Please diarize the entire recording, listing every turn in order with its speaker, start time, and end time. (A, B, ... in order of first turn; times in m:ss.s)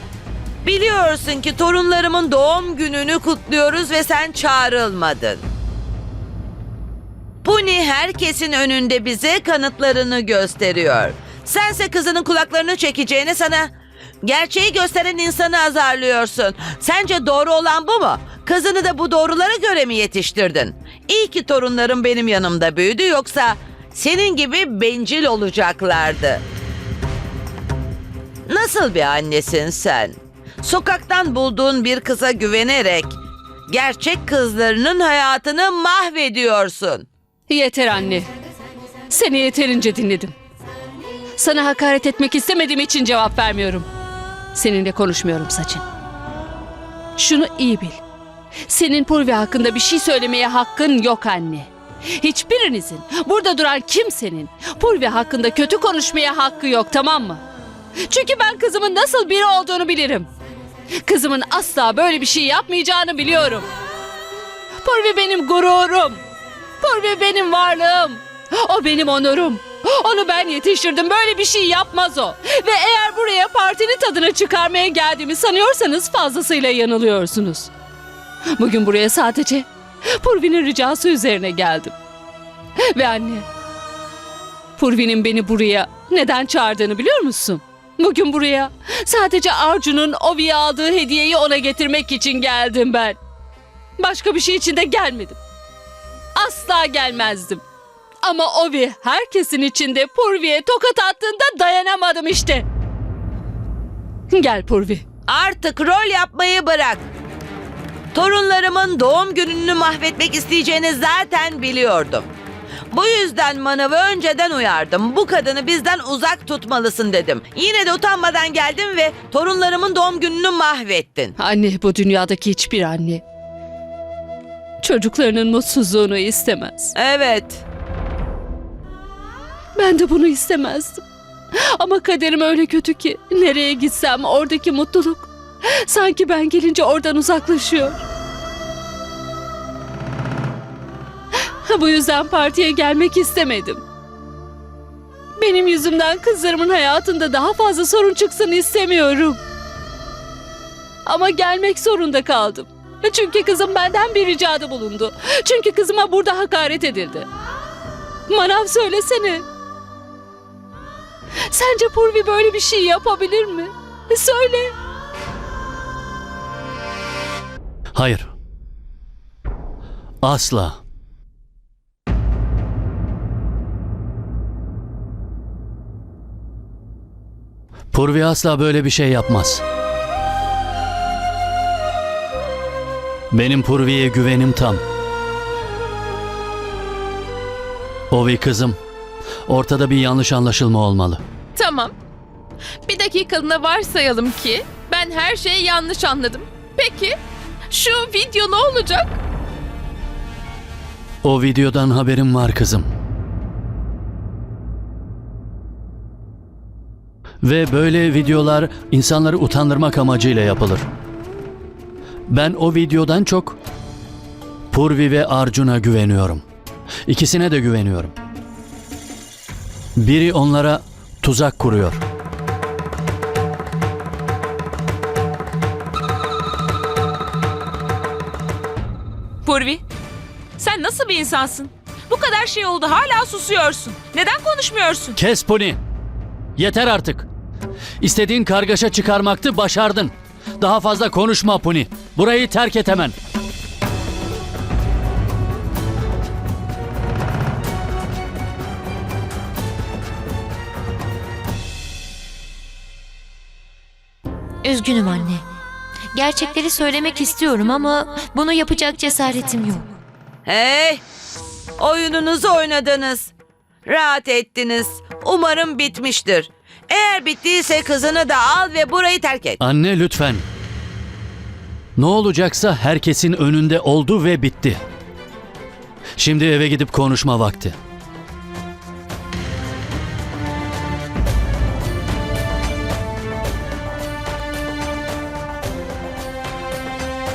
0:00.6-0:05.4 A
0:07.4-0:26.4 A
0:28.5-0:37.1 A
0:37.5-0:38.3 B
0:39.1-0:40.4 B
0:41.4-0:43.9 B
0:44.5-0:45.8 B
0:47.2-0:48.0 B
0:48.7-0:57.4 B
0:58.0-1:00.3 B
1:01.0-1:03.7 B
1:04.8-1:06.2 B
1:06.8-1:17.7 B
1:18.5-1:22.0 B
1:22.8-1:23.5 B
1:24.8-1:33.2 B
1:34.0-1:35.4 B
1:36.4-1:37.6 B
1:38.2-1:42.7 B
1:44.3-1:45.0 B
1:45.3-1:47.1 A
1:48.1-1:52.3 A
1:52.9-2:01.3 A
2:01.4-2:03.2 B
2:04.8-2:07.0 B
2:07.0-2:07.6 A
2:09.8-2:11.0 B
2:11.6-2:18.0 B
2:21.5-2:23.8 B
2:25.4-2:29.4 B
2:31.0-2:37.3 B
2:38.3-2:39.4 B
2:41.5-2:44.7 B
2:48.0-2:48.3 C
2:50.2-2:50.8 C
2:57.9-2:59.6 C
3:03.3-3:04.8 C
3:08.1-3:08.8 C
3:09.5-3:11.2 C
3:11.6-3:11.9 D
3:12.9-3:17.2 D
3:17.7-3:19.2 D
3:21.2-3:22.9 C
3:27.4-3:30.8 C
3:32.3-3:33.6 C
3:34.7-3:36.4 C
3:37.1-3:38.1 C
3:40.0-3:42.0 C
3:49.4-3:49.8 E
3:50.6-3:55.2 E
3:55.2-3:55.8 C
3:56.6-3:57.3 C
3:58.0-4:03.2 C
4:14.6-4:15.4 F
4:16.1-4:19.9 F
4:20.4-4:21.0 A
4:21.8-4:23.3 A
4:23.8-4:29.6 A
4:29.6-4:30.4 C
4:32.0-4:34.8 C
4:36.2-4:37.8 C